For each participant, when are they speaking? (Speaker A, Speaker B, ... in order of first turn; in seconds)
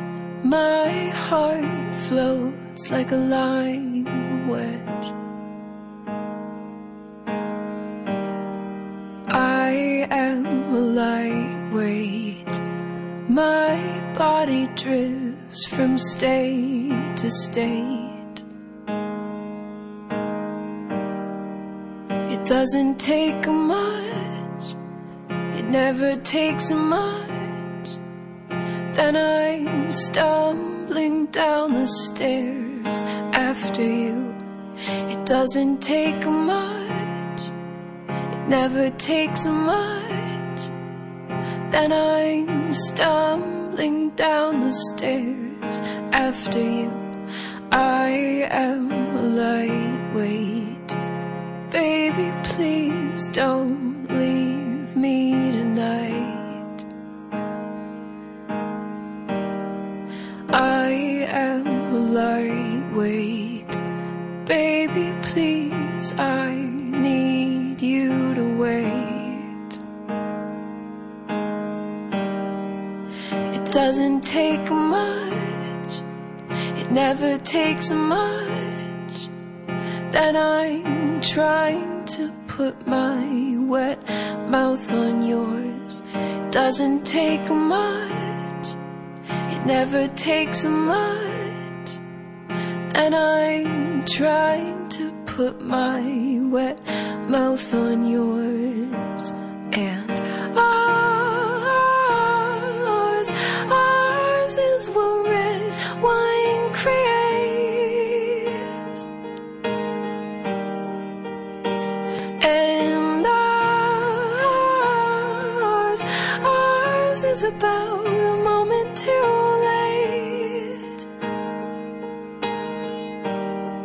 Speaker A: 0.4-5.1, 9.3-12.6, 13.3-18.4, 22.3-24.7, 25.5-28.0, 28.9-34.4, 35.0-37.5, 38.4-40.7, 41.7-47.0, 47.7-51.0, 51.7-56.8, 60.5-63.8, 64.5-69.7, 73.5-76.0, 76.7-79.3, 80.1-88.8, 89.5-92.0, 92.9-108.8, 112.4-120.9